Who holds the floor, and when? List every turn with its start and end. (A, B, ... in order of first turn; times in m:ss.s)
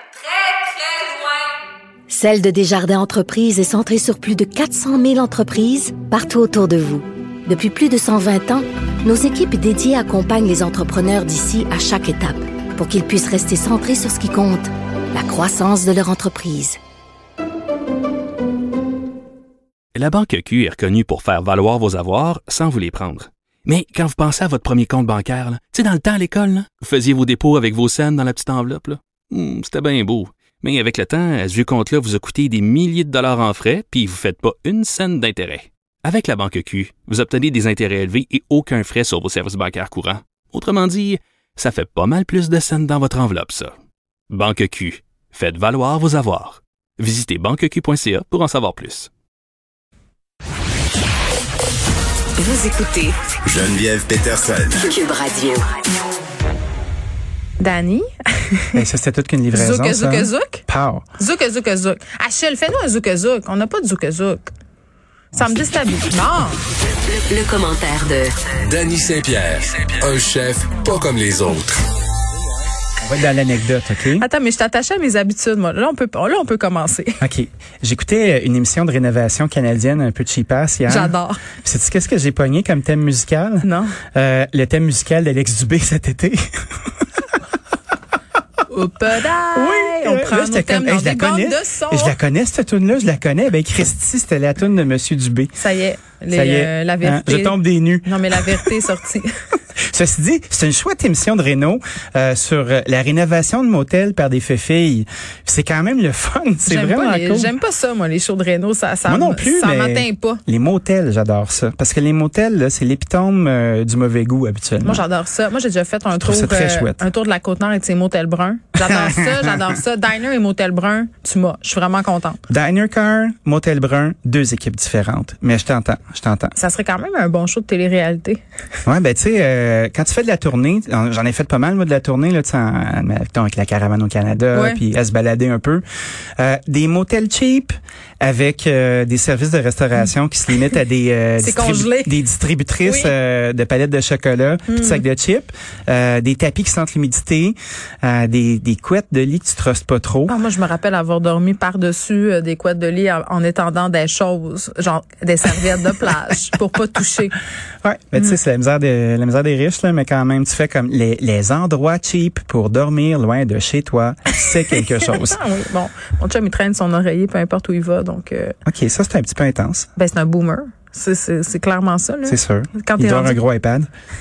0:00.3-0:01.2 A
0:02.1-0:16.8 B
0:20.0-0:43.7 C
0:44.3-0:49.1 C
0:52.4-0:53.2 A
0:53.4-0:54.9 D
0:54.8-0:55.7 A
0:57.6-0:58.8 E
0:58.8-1:01.0 F
0:59.5-1:00.6 E
1:01.2-1:04.4 E
1:05.3-1:06.6 E
1:07.1-1:08.4 A
1:08.6-1:11.8 D
1:13.0-1:14.3 F
1:14.2-1:17.2 E
1:17.2-1:26.4 F
1:20.9-1:21.4 E
1:23.6-1:24.0 E
1:28.7-1:32.2 E
1:29.6-1:35.5 F
1:35.6-1:39.3 E
1:36.3-1:38.7 F
1:39.9-1:47.5 F
1:46.7-1:50.4 E
1:49.1-1:55.0 F
1:54.8-2:02.4 E
1:56.2-1:57.0 F
1:58.8-1:59.6 F
2:02.5-2:06.5 F
2:06.6-2:08.4 E
2:08.9-2:15.8 F
2:14.5-2:14.8 E
2:16.4-2:30.4 F
2:21.4-2:22.1 E
2:22.8-2:23.1 E
2:24.7-2:25.0 E
2:30.3-2:37.4 E
2:37.8-2:45.4 F
2:45.0-2:48.6 E
2:48.7-2:49.9 F
2:50.0-2:53.4 E
2:52.3-2:53.9 F